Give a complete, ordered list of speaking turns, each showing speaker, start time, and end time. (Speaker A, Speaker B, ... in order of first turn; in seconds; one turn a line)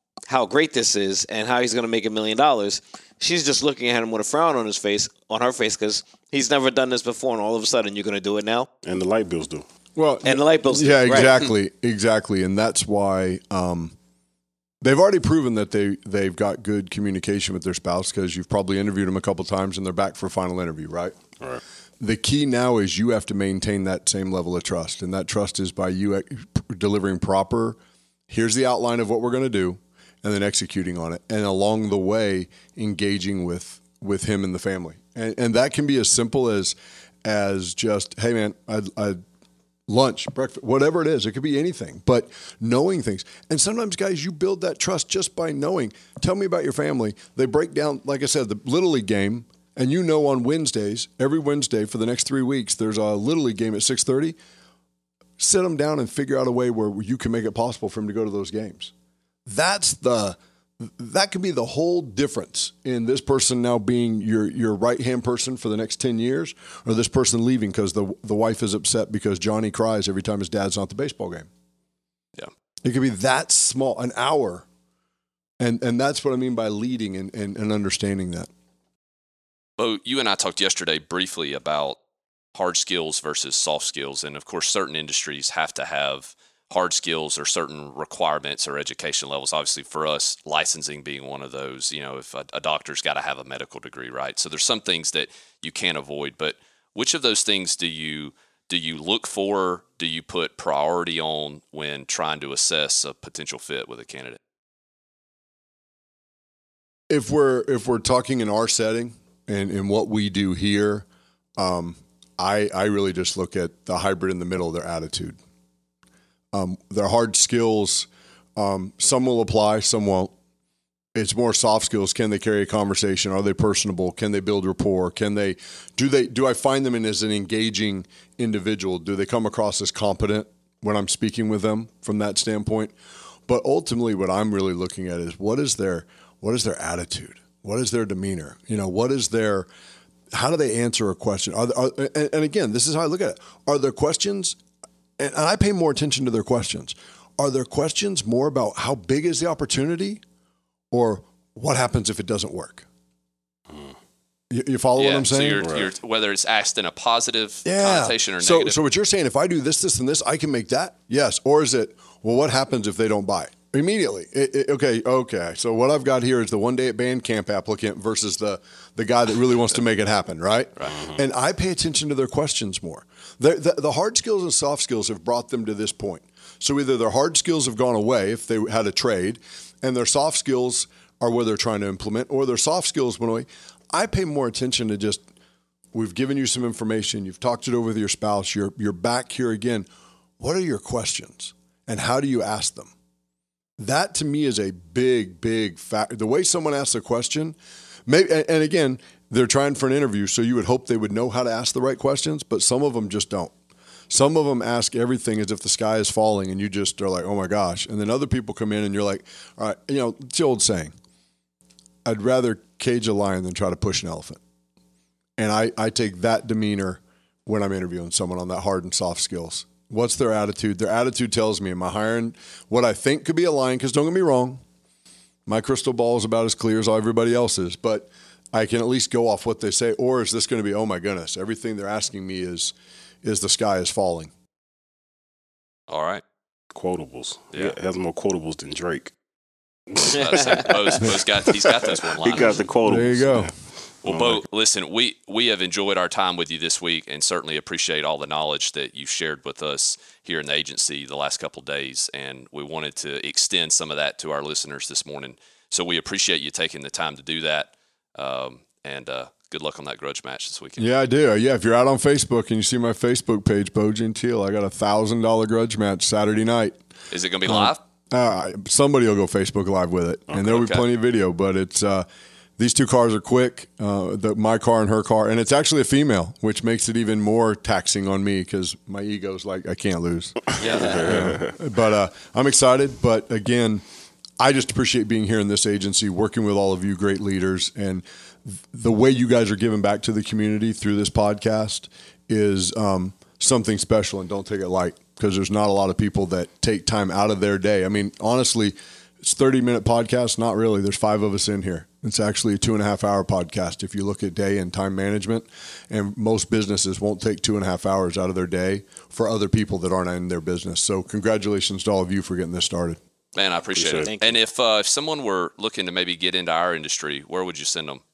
Speaker A: 0.3-8.7
Speaker B: 8.8-9.7
Speaker C: 9.9-13.9
Speaker A: 10.2-11.5
Speaker C: 14.8-21.2
Speaker C: 22.0-27.8
Speaker C: 28.3-39.2
Speaker C: 39.9-54.4
Speaker C: 55.4-58.9
Speaker C: 59.5-71.5
Speaker C: 72.8-74.7
Speaker C: 75.6-78.5
Speaker D: 79.8-82.0
Speaker D: 82.5-104.4
Speaker C: 107.1-111.0
Speaker C: 111.6-115.4
Speaker C: 116.5-120.3
Speaker C: 121.1-132.9
Speaker C: 133.5-139.7
Speaker C: 140.3-144.6
Speaker C: 145.2-150.2
Speaker C: 150.9-152.8
Speaker B: 153.7-153.9
Speaker C: 154.5-155.6
Speaker D: 154.9-158.8
Speaker B: 155.6-155.9
Speaker C: 157.6-185.2
Speaker B: 170.9-171.2
Speaker C: 185.9-189.9
Speaker C: 190.4-192.9
Speaker C: 193.8-203.5
Speaker C: 204.1-210.9
Speaker C: 212.0-214.4
Speaker C: 215.4-224.6
Speaker C: 225.4-234.3
Speaker D: 235.9-236.2
Speaker B: 236.7-239.1
Speaker B: 239.9-241.5
Speaker D: 240.0-242.6
Speaker B: 242.2-244.4
Speaker C: 242.8-243.5
Speaker D: 244.0-260.9
Speaker C: 260.8-266.8
Speaker D: 267.1-267.8
Speaker C: 267.4-272.0
Speaker D: 270.3-270.8
Speaker C: 272.6-283.8
Speaker D: 280.6-281.3
Speaker B: 280.7-281.6
Speaker C: 284.4-313.0
Speaker D: 313.3-318.0
Speaker B: 313.7-314.1
Speaker A: 314.0-314.4